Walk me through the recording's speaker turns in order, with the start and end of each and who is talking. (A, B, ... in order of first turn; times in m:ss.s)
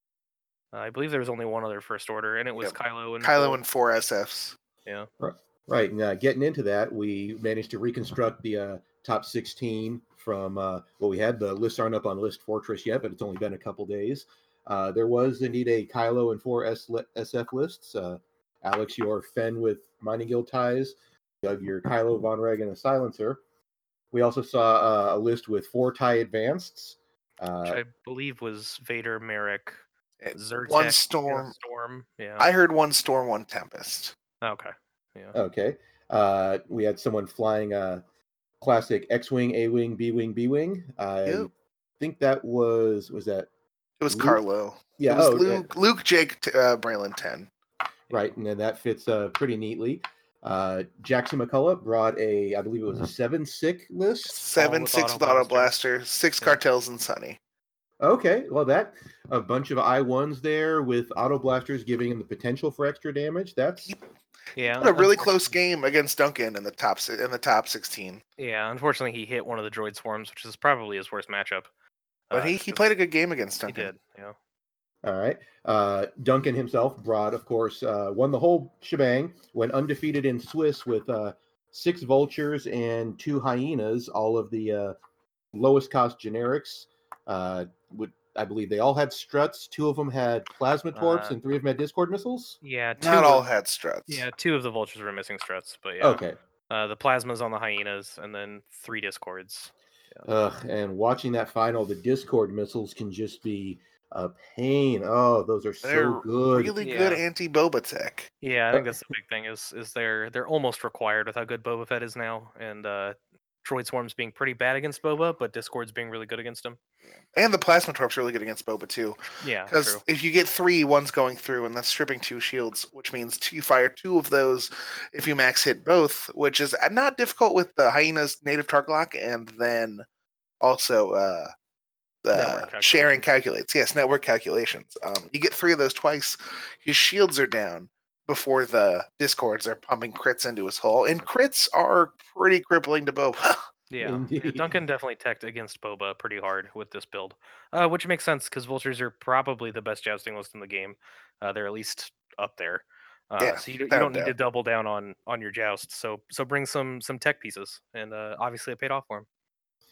0:00.7-0:03.6 A
0:02.6-0:04.6 B
0:05.2-0:23.4 C
0:24.1-0:27.8 C
0:27.6-0:29.8 A
0:30.2-0:31.5 B
0:30.3-0:32.5 A
0:32.4-0:34.1 B
0:34.4-0:35.4 A
0:35.3-0:38.0 C
0:38.6-0:43.5 C
0:44.0-0:47.5 B
0:44.1-0:44.4 C
0:45.0-0:45.7 C
0:48.1-0:54.4 C
0:54.3-0:57.4 B
0:54.6-0:55.7 A
0:58.0-1:03.9 C
1:04.6-1:05.2 A
1:04.7-1:08.2 B
1:08.4-1:11.7 A
1:12.3-1:12.8 A
1:12.3-1:13.9 B
1:13.7-1:14.3 A
1:15.0-1:24.9 C
1:25.5-1:32.6 C
1:30.9-1:31.3 A
1:32.6-1:33.4 A
1:33.0-1:34.2 B
1:34.1-1:40.2 A
1:36.0-1:36.4 C
1:40.2-1:46.7 C
1:45.8-1:48.3 B
1:46.8-1:47.2 A
1:48.4-1:56.8 A
1:57.2-2:10.0 B
1:59.4-2:00.0 A
2:10.6-2:11.5 B
2:12.2-2:23.6 B
2:12.3-2:13.2 A
2:23.9-2:39.3 A
2:24.0-2:24.7 C
2:33.4-2:34.3 B